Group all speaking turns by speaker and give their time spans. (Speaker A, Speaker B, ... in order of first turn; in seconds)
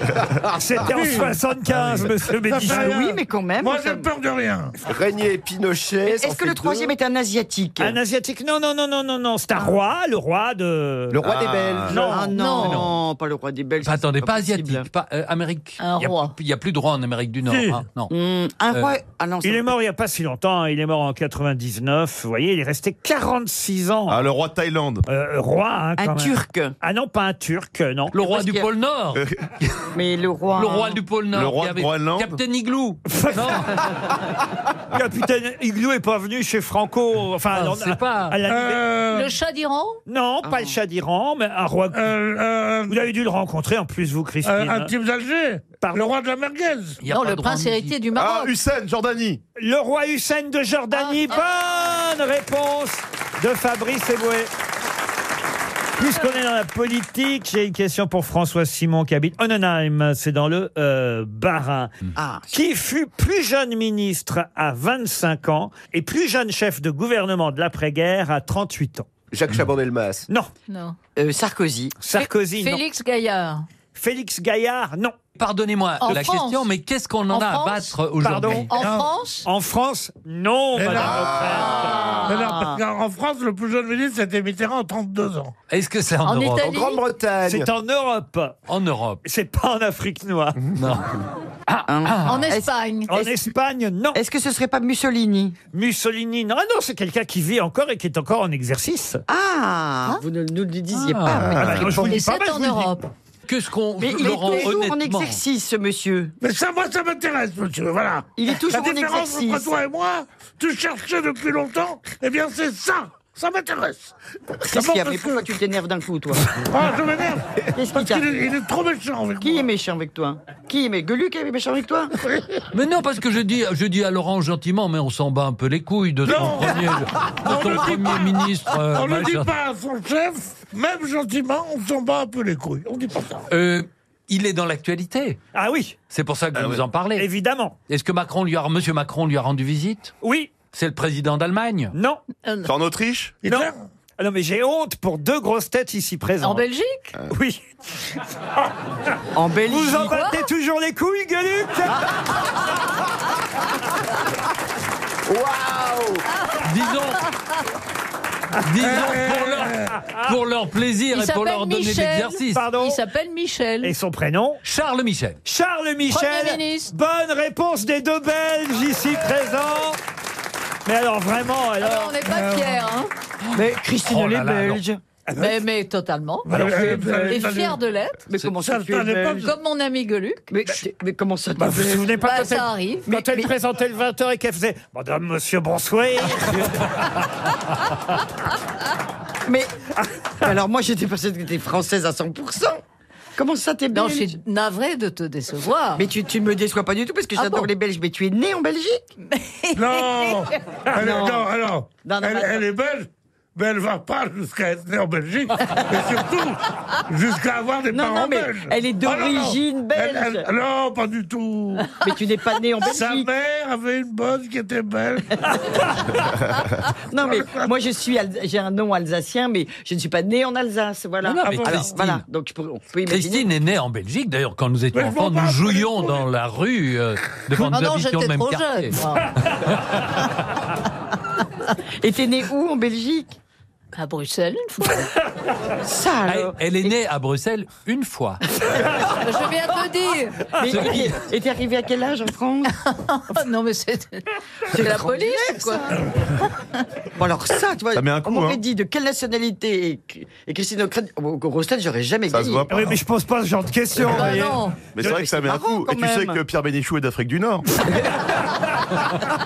Speaker A: 0.4-2.9, 7.8-11.2, 11.9-12.4, 19.4-24.2, 25.1-28.1, 33.1-33.7, 34.9-38.9, 40.1-42.1, 42.9-44.9, 49.6-54.5, 56.0-61.9, 62.5-69.1, 72.0-72.8, 73.9-75.2, 78.2-78.9, 79.4-82.2, 87.5-88.6, 89.2-90.6, 93.1-94.2, 95.7-99.2, 101.6-103.0, 135.5-135.9, 137.2-137.8, 140.2-140.5, 141.9-142.2, 143.4-146.6, 147.3-147.6, 149.7-152.1, 162.5-163.0, 163.8-164.6, 165.4-170.0, 170.8-172.3, 176.5-177.3, 181.6-187.0, 252.7-254.6
Speaker B: 0.8-1.4, 2.4-4.7, 17.5-17.8, 38.5-39.3, 41.9-43.0, 44.4-47.0, 78.8-79.1, 80.8-81.5, 82.2-85.5, 106.4-114.1, 114.7-115.5, 116.5-119.7, 126.2-133.4, 143.4-143.8, 158.8-159.9, 172.3-172.8, 176.4-177.8, 178.5-179.5, 199.7-211.9, 212.8-215.9, 217.2-217.7, 221.4-221.9, 224.9-226.2
Speaker C: 1.7-2.1, 12.6-13.0, 13.8-18.1, 28.1-29.2, 30.5-33.8, 37.5-38.4, 47.0-48.0, 75.4-78.8, 85.7-86.8, 88.7-89.2, 90.8-91.1, 91.7-92.5, 100.9-101.6, 103.5-105.4, 122.7-129.6, 133.5-135.4, 136.1-137.3, 137.9-140.1, 140.7-141.9, 156.6-157.2, 158.6-162.7, 164.6-165.4, 173.5-174.8, 221.2-222.2, 223.1-229.0, 229.5-229.8, 236.2-238.6, 240.7-241.2
Speaker D: 2.6-4.1, 6.0-8.0, 11.9-14.9, 18.1-19.7, 26.0-26.8, 28.2-28.7, 29.9-31.0, 40.4-40.7, 62.1-62.5, 71.2-72.0, 82.3-82.8, 91.9-93.3, 94.1-95.5, 99.3-102.1, 104.0-106.3, 108.4-109.8, 114.7-116.6, 117.7-118.3, 119.4-122.2, 149.3-150.2, 173.5-175.0, 178.3-179.5, 180.5-182.2, 183.1-183.4, 189.5-189.7, 190.4-192.8, 193.3-194.3, 196.0-199.0, 200.9-201.5, 202.0-202.6, 207.9-210.5, 212.0-213.3, 216.9-223.5, 232.0-233.4, 235.8-236.9, 240.6-242.7, 244.7-246.2, 247.1-252.7, 255.0-256.4
Speaker E: 4.8-6.9, 11.1-12.1, 69.3-70.3, 86.6-87.7, 155.3-156.2
Speaker F: 11.2-11.9, 24.1-25.0, 29.1-29.4, 31.3-32.4, 48.1-49.4, 101.4-101.8, 136.5-136.8, 142.6-143.4, 247.9-248.6, 252.3-253.0, 254.9-257.8
Speaker G: 12.3-12.9, 15.8-16.3, 39.0-40.0, 47.0-48.5, 50.9-51.4, 70.7-71.0, 72.2-73.7, 76.0-76.7, 77.3-78.0, 78.5-79.5, 81.6-82.5, 86.2-87.0, 92.2-93.1, 102.0-103.0, 142.4-142.7, 146.4-147.2, 150.0-150.5, 161.1-163.9, 166.1-166.9, 171.8-173.1, 175.3-178.2, 179.4-180.4, 182.2-183.1, 193.9-196.0, 197.4-197.7, 199.2-200.8, 227.5-229.3, 233.9-235.1, 239.0-240.5, 242.8-245.9, 254.1-254.9